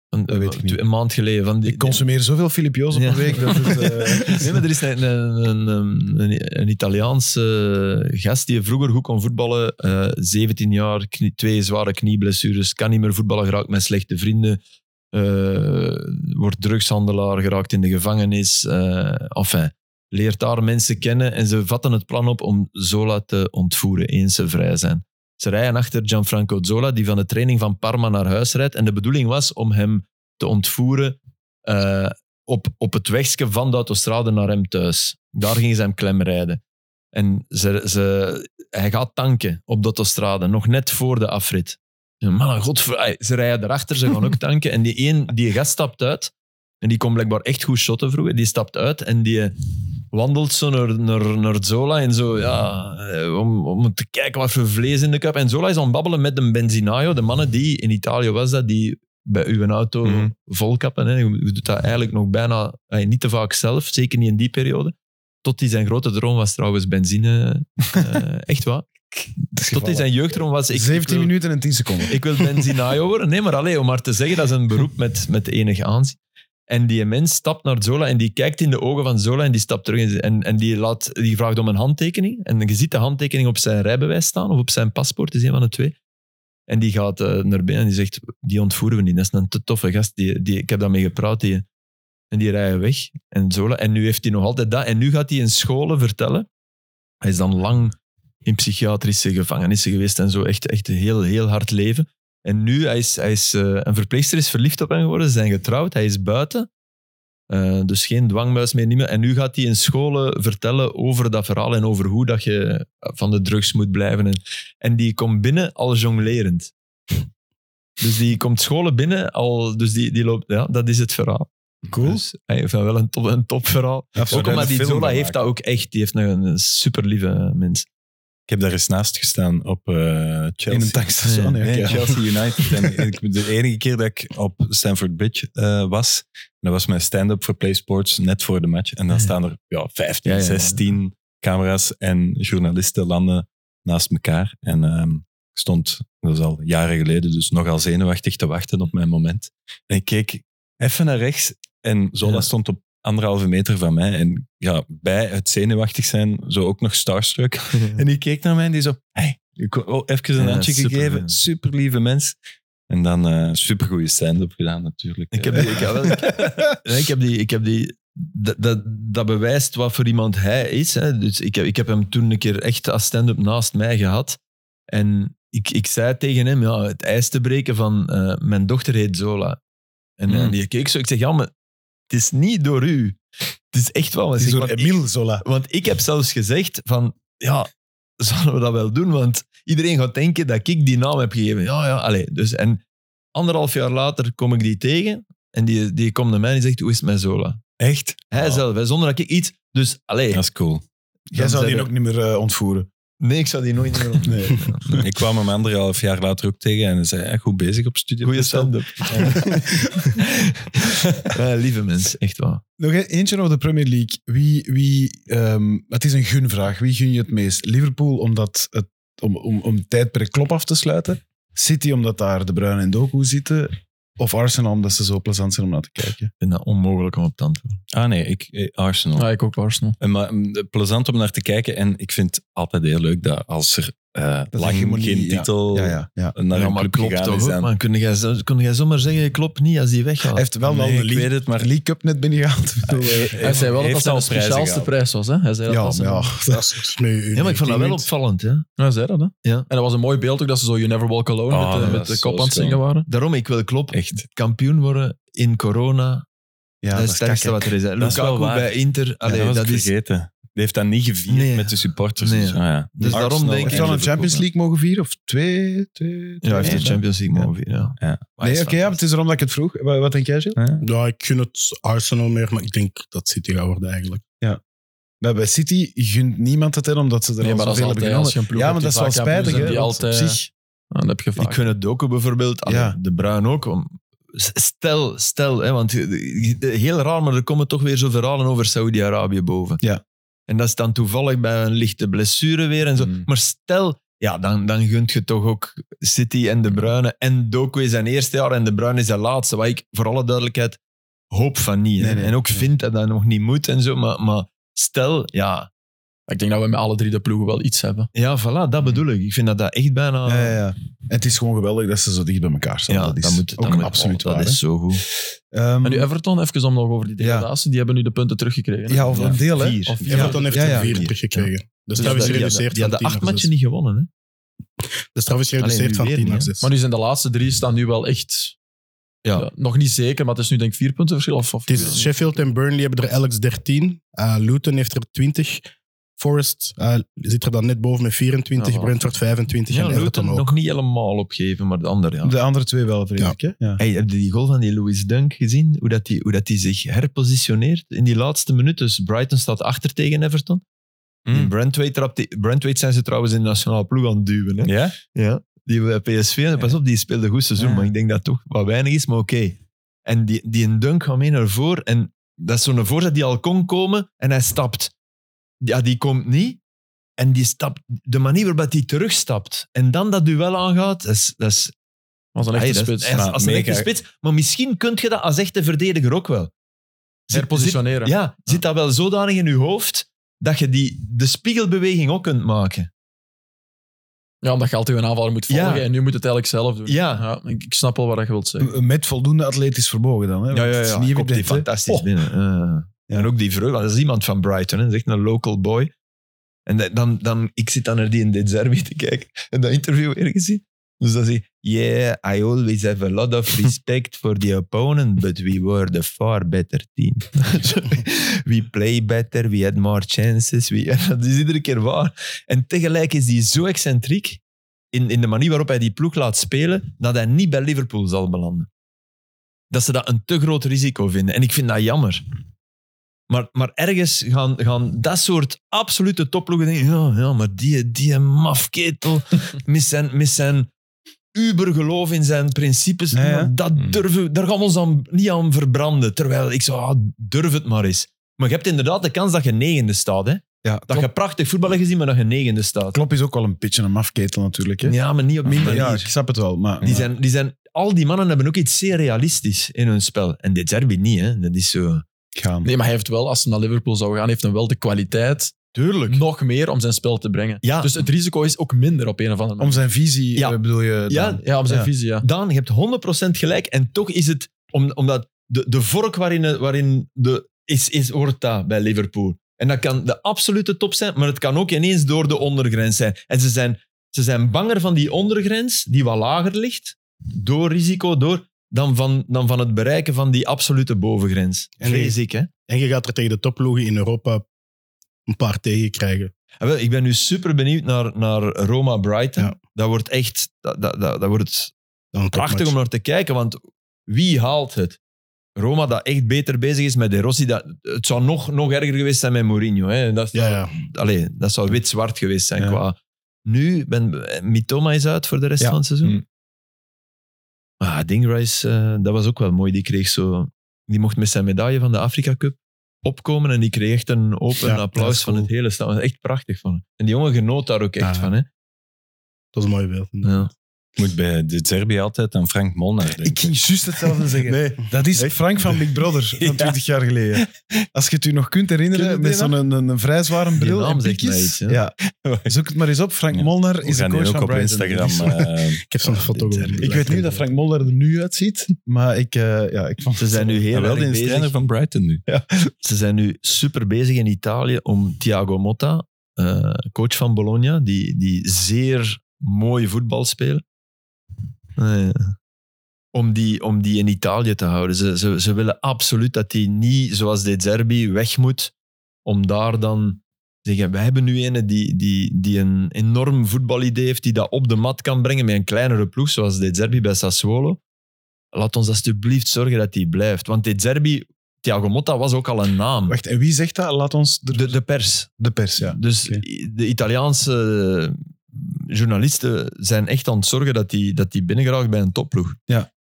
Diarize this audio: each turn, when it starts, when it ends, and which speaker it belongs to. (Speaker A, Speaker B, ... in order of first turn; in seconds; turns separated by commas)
Speaker A: 0.1-2.0, Speaker B: 0.3-0.8, Speaker B: 1.6-4.6, Speaker A: 2.9-14.6, Speaker A: 15.1-36.6, Speaker A: 37.1-49.6, Speaker A: 50.1-71.3, Speaker C: 60.0-60.3, Speaker B: 69.6-70.1, Speaker B: 70.7-72.2, Speaker A: 72.1-76.2, Speaker A: 76.7-85.9, Speaker A: 86.7-91.7, Speaker A: 92.3-96.5, Speaker A: 97.2-106.7, Speaker A: 107.5-116.7, Speaker A: 118.0-127.9, Speaker B: 121.9-122.2, Speaker B: 124.1-124.8, Speaker C: 124.2-125.4, Speaker C: 128.5-131.0, Speaker B: 130.7-132.2, Speaker A: 131.2-131.6, Speaker C: 131.6-162.4, Speaker A: 140.2-140.8, Speaker A: 160.4-161.3, Speaker C: 162.9-166.7, Speaker A: 165.3-174.4, Speaker A: 174.9-179.6, Speaker A: 180.2-181.5, Speaker C: 180.3-180.6, Speaker A: 182.1-183.2, Speaker A: 183.7-187.7, Speaker B: 184.4-185.4, Speaker A: 188.2-192.8, Speaker A: 193.3-197.6, Speaker C: 197.8-198.6, Speaker A: 198.3-200.4, Speaker C: 200.3-200.8, Speaker B: 201.3-202.9, Speaker A: 201.3-201.9, Speaker A: 203.2-205.1, Speaker B: 204.2-204.7, Speaker C: 205.0-209.9, Speaker A: 208.2-212.6, Speaker B: 212.8-226.3, Speaker A: 226.4-227.8, Speaker C: 227.9-229.3, Speaker D: 229.2-230.0, Speaker C: 230.0-237.7, Speaker B: 234.5-236.3, Speaker A: 236.5-240.4, Speaker B: 240.3-243.6, Speaker C: 240.6-241.7, Speaker C: 242.9-244.9, Speaker D: 243.4-246.4, Speaker B: 245.7-246.8, Speaker E: 246.5-248.1, Speaker A: 247.3-248.7, Speaker D: 248.8-253.1, Speaker C: 251.5-252.8, Speaker A: 253.1-256.2, Speaker C: 253.9-254.2, Speaker B: 256.8-258.2, Speaker A: 256.9-259.9, Speaker C: 258.0-258.7, Speaker C: 259.2-264.4, Speaker A: 261.3-264.1, Speaker B: 263.0-267.5, Speaker A: 266.4-269.0, Speaker C: 266.6-266.9, Speaker C: 268.0-268.3, Speaker B: 268.4-270.6, Speaker C: 270.6-270.8, Speaker E: 270.8-274.2, Speaker B: 275.2-280.5, Speaker D: 277.4-281.7, Speaker A: 279.4-279.7, Speaker A: 281.4-289.8, Speaker B: 282.6-283.0, Speaker A: 290.5-300.8, Speaker C: 293.0-293.3, Speaker A: 301.3-305.7, Speaker B: 302.0-302.4, Speaker D: 306.3-308.1, Speaker A: 308.1-310.6, Speaker B: 310.3-314.6, Speaker A: 312.9-315.0, Speaker B: 315.5-316.1, Speaker D: 315.8-320.6, Speaker B: 317.2-317.5, Speaker B: 318.9-320.9, Speaker A: 319.1-321.4, Speaker E: 320.1-323.5, Speaker A: 322.0-324.1, Speaker D: 322.0-322.5, Speaker E: 325.1-326.7, Speaker A: 325.6-326.5, Speaker D: 326.6-328.6, Speaker D: 329.4-332.1, Speaker E: 331.7-335.6, Speaker E: 336.2-340.5, Speaker D: 338.6-339.0, Speaker A: 339.7-342.4, Speaker B: 342.2-343.8, Speaker A: 343.8-350.6, Speaker C: 351.3-351.5, Speaker A: 351.3-364.9, Speaker C: 354.6-355.0, Speaker C: 357.6-357.9, Speaker A: 365.6-366.6, Speaker A: 367.2-371.7, Speaker D: 372.4-373.1, Speaker A: 372.5-376.5, Speaker C: 373.1-373.9, Speaker A: 377.3-382.9, Speaker D: 377.3-378.1, Speaker D: 384.4-388.7, Speaker A: 385.5-385.9, Speaker A: 386.9-387.3, Speaker B: 388.6-392.1, Speaker A: 390.5-395.9, Speaker A: 396.6-414.4, Speaker A: 414.9-418.7, Speaker A: 419.7-422.2, Speaker A: 423.3-430.7, Speaker A: 431.3-443.0, Speaker B: 433.1-433.5, Speaker B: 440.6-441.1, Speaker B: 442.9-447.1, Speaker A: 444.8-446.1, Speaker A: 446.8-452.0, Speaker B: 452.4-452.7, Speaker D: 452.6-455.6, Speaker A: 455.7-456.2, Speaker D: 456.1-459.8, Speaker A: 457.6-458.0, Speaker B: 459.6-461.9, Speaker A: 460.4-461.4, Speaker D: 461.4-462.3, Speaker A: 462.2-482.5, Speaker E: 481.8-482.1, Speaker E: 482.7-484.4, Speaker E: 485.3-486.3, Speaker A: 486.6-491.7, Speaker E: 492.1-492.8, Speaker A: 492.3-495.0, Speaker A: 495.6-506.2, Speaker E: 500.3-500.8, Speaker A: 507.8-518.5, Speaker B: 514.9-515.5, Speaker E: 518.0-518.3, Speaker E: 519.5-520.4, Speaker A: 520.2-520.5, Speaker C: 521.0-523.6, Speaker B: 523.2-535.5, Speaker C: 524.1-526.8, Speaker C: 528.9-529.6, Speaker A: 530.6-531.8, Speaker C: 532.2-532.5, Speaker C: 533.3-535.9, Speaker E: 535.9-537.4, Speaker A: 536.6-537.1, Speaker B: 536.8-540.6, Speaker A: 540.2-541.5, Speaker C: 540.7-542.2, Speaker A: 542.3-550.6, Speaker A: 551.8-552.4, Speaker A: 553.1-558.7, Speaker A: 559.2-567.8, Speaker A: 568.5-573.2, Speaker B: 573.1-574.8, Speaker A: 574.5-582.6, Speaker B: 575.3-576.4